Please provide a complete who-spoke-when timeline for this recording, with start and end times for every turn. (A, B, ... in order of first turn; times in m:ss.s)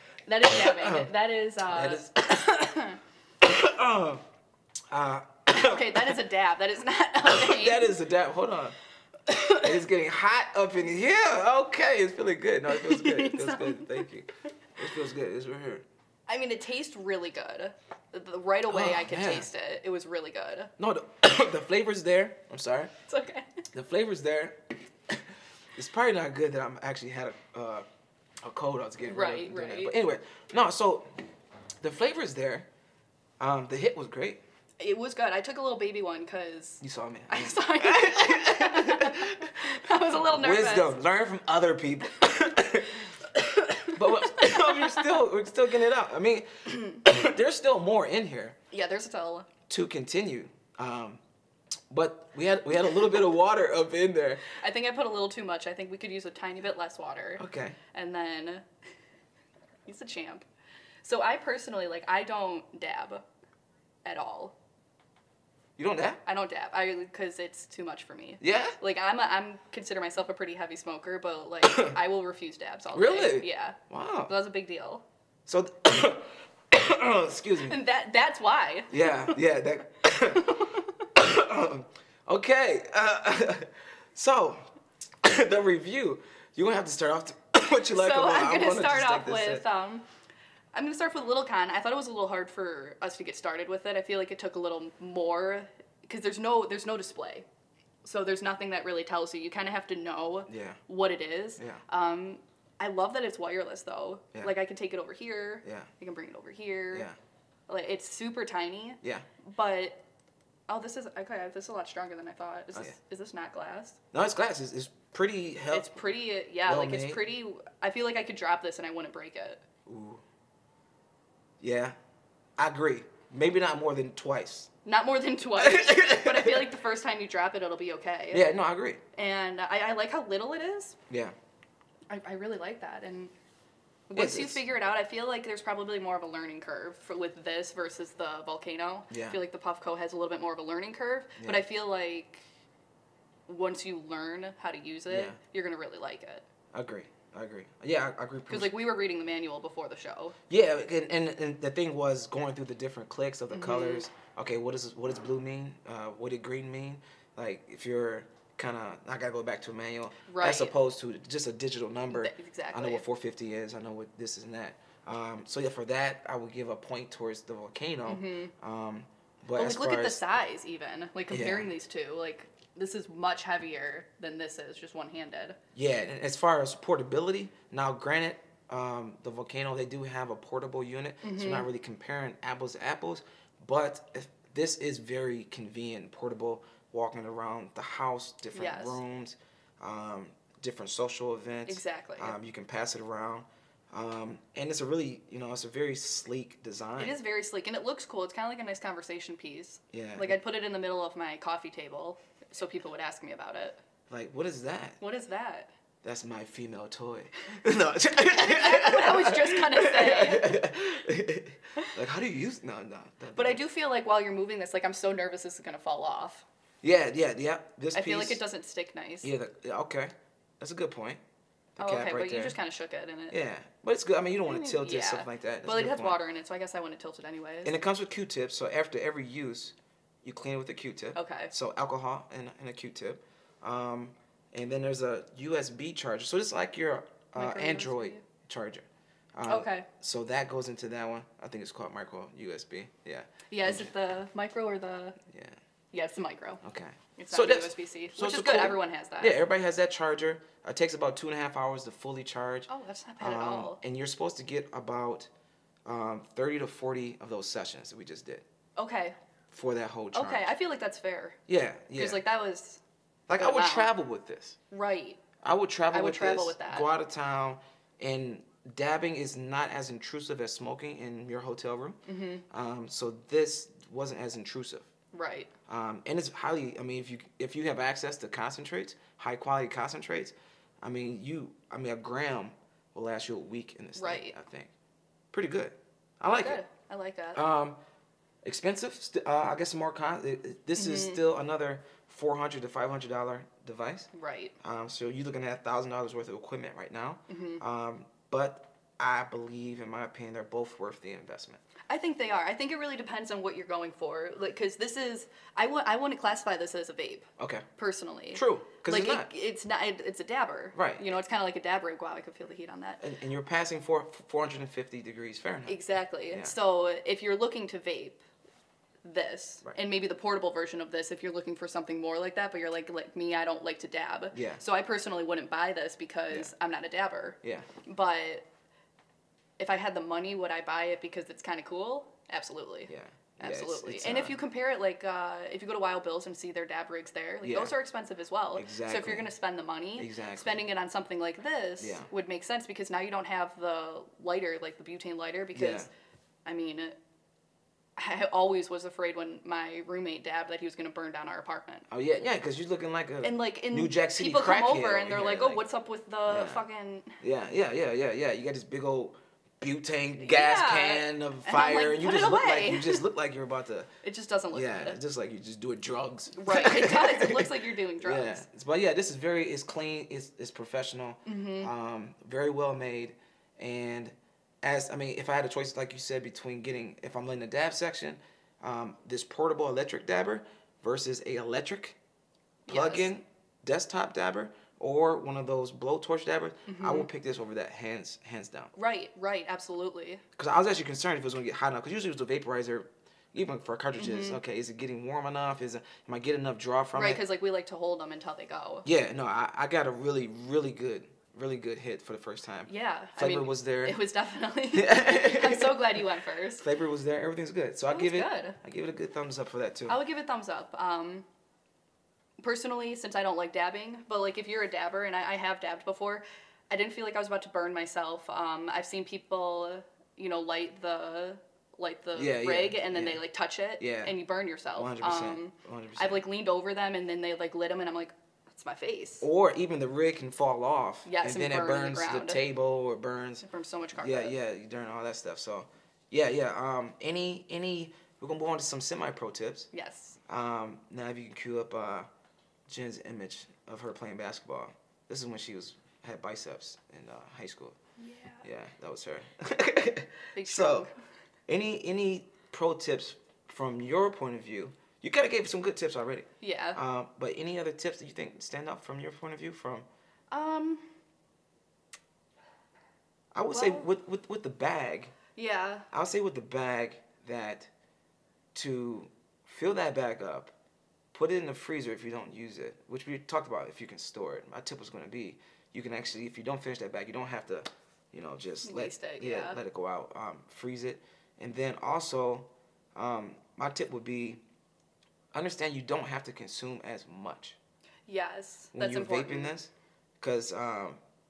0:00.3-0:03.0 A
0:00.5-0:01.1 B
0:01.7-0:02.8 B
0:03.4-0:04.2 B
0:04.9-0:06.2 B
0:05.5-0:07.9 A
0:07.2-0:08.8 B
0:09.3-0:09.6 A
0:09.5-0:15.8 B
0:12.7-0:14.0 A
0:16.3-0:20.7 A
0:18.7-0:19.5 B
0:20.8-0:22.9 B
0:23.1-0:23.6 A
0:23.7-0:27.8 B
0:28.4-0:31.1 B
0:29.0-0:29.9 A
0:31.8-0:32.7 B
0:33.4-0:34.4 B
0:34.8-0:40.9 A
0:36.8-0:39.7 B
0:40.2-0:48.6 B
0:43.7-0:45.1 A
0:48.7-0:49.5 A
0:49.7-0:51.2 B
0:51.9-0:54.4 B
0:54.5-0:58.6 A
0:57.4-0:57.8 B
0:59.9-1:00.4 A
1:01.0-1:03.2 A
1:04.0-1:04.6 A
1:05.8-1:06.2 B
1:06.2-1:15.0 A
1:08.4-1:08.8 B
1:11.6-1:12.0 B
1:12.9-1:14.3 B
1:15.4-1:17.8 B
1:17.6-1:19.4 A
1:18.9-1:24.6 B
1:20.3-1:21.0 A
1:25.2-1:29.6 B
1:27.9-1:30.0 A
1:30.7-1:37.5 A
1:38.0-1:47.1 A
1:40.5-1:40.8 B
1:45.6-1:45.9 B
1:47.7-1:50.0 A
1:49.0-1:49.3 B
1:50.7-1:54.0 A
1:54.1-1:56.0 B
1:55.7-1:59.6 A
1:56.6-1:57.2 B
1:59.8-2:00.2 B
2:01.6-2:02.0 B
2:02.6-2:04.7 B
2:04.8-2:08.5 A
2:05.6-2:06.7 B
2:08.3-2:09.0 B
2:09.1-2:11.0 A
2:11.1-2:11.3 B
2:12.1-2:13.3 A
2:14.1-2:22.4 A
2:14.1-2:14.6 B
2:19.1-2:19.4 B
2:21.4-2:21.6 B
2:23.5-2:26.4 A
2:25.1-2:25.4 B
2:26.7-2:28.8 B
2:28.5-2:30.4 A
2:30.5-2:50.2 B
2:33.5-2:34.0 A
2:40.3-2:40.7 A
2:42.1-2:43.0 A
2:48.1-2:48.5 A
2:49.5-2:55.6 A
2:51.3-2:51.7 B
2:55.7-3:17.2 B
3:01.2-3:01.7 A
3:08.5-3:09.0 A
3:11.7-3:12.4 A
3:17.0-3:23.8 A
3:19.9-3:20.4 B
3:24.1-3:25.0 B
3:25.0-3:25.7 A
3:26.0-3:33.6 B
3:28.4-3:30.6 A
3:33.4-3:36.4 A
3:36.8-3:38.4 B
3:37.9-3:39.3 A
3:39.2-3:41.2 B
3:41.8-3:42.6 B
3:41.8-3:43.4 A
3:43.3-3:46.2 B
3:44.5-3:47.8 A
3:47.6-4:03.9 B
3:51.1-3:51.5 A
3:57.3-3:58.2 A
3:59.4-3:59.9 A
4:03.5-4:05.2 A
4:05.3-4:05.6 B
4:05.9-4:06.6 A
4:06.6-4:12.7 B
4:07.2-4:09.4 A
4:12.7-4:13.8 A
4:13.2-4:15.3 B
4:15.8-4:18.4 B
4:18.8-4:19.2 A
4:19.5-4:20.5 B
4:20.1-4:21.4 A
4:21.5-4:22.2 B
4:22.0-4:22.8 A
4:23.3-4:24.6 B
4:23.4-4:23.9 A
4:24.7-4:25.2 A
4:25.4-4:34.9 B
4:25.9-4:26.9 A
4:32.0-4:32.4 A
4:35.1-4:35.5 A
4:35.7-4:44.7 B
4:44.0-4:44.3 A
4:45.3-4:46.6 B
4:46.3-4:47.4 A
4:47.3-4:47.8 B
4:48.4-5:01.6 B
4:50.8-4:51.2 A
4:54.1-4:54.5 A
4:57.3-4:57.6 A
5:01.9-5:13.0 A
5:07.4-5:07.6 B
5:08.3-5:09.3 B
5:10.7-5:11.0 B
5:13.0-5:15.8 B
5:15.7-5:18.2 A
5:16.3-5:16.6 B
5:19.0-5:28.4 A
5:24.3-5:24.6 B
5:27.4-5:27.7 B
5:29.6-5:45.9 A
5:32.9-5:34.4 B
5:37.4-5:37.7 B
5:38.5-5:39.3 B
5:40.0-5:40.6 B
5:41.8-5:42.1 B
5:45.5-5:45.9 B
5:46.4-5:47.0 A
5:48.0-5:51.9 A
5:51.9-5:55.6 B
5:53.2-5:57.2 A
5:56.3-5:56.6 B
5:57.2-6:03.9 B
6:00.2-6:03.0 A
6:04.0-6:05.0 A
6:04.5-6:22.0 B
6:06.3-6:08.4 A
6:11.2-6:11.7 A
6:22.6-6:23.1 A
6:22.7-6:28.7 B
6:26.7-6:27.1 A
6:28.8-6:30.2 A
6:30.4-6:37.2 B
6:34.0-6:34.4 A
6:36.9-6:38.8 A
6:38.8-6:44.0 B
6:42.7-6:46.6 A
6:44.7-6:46.0 B
6:46.6-6:50.0 B
6:47.9-6:48.6 A
6:49.9-6:51.2 A
6:52.4-7:09.2 A
7:02.1-7:03.2 B
7:03.8-7:04.1 B
7:04.8-7:06.2 B
7:09.2-7:13.4 B
7:11.0-7:12.4 A
7:13.4-7:14.3 A
7:14.0-7:19.7 B
7:19.7-7:20.2 A
7:20.3-7:22.1 B
7:22.7-7:27.8 B
7:28.0-7:28.4 A
7:28.4-7:30.9 B
7:30.3-7:30.9 A
7:31.5-7:39.9 B
7:36.4-7:36.8 A
7:40.3-7:40.8 A
7:43.3-7:45.1 B
7:43.5-7:43.9 A
7:45.4-7:45.9 A
7:45.9-7:47.7 B
7:48.5-7:50.5 B
7:51.1-8:04.4 B
7:58.6-7:59.6 A
8:05.3-8:07.6 B
8:08.1-8:09.5 A
8:08.7-8:11.0 B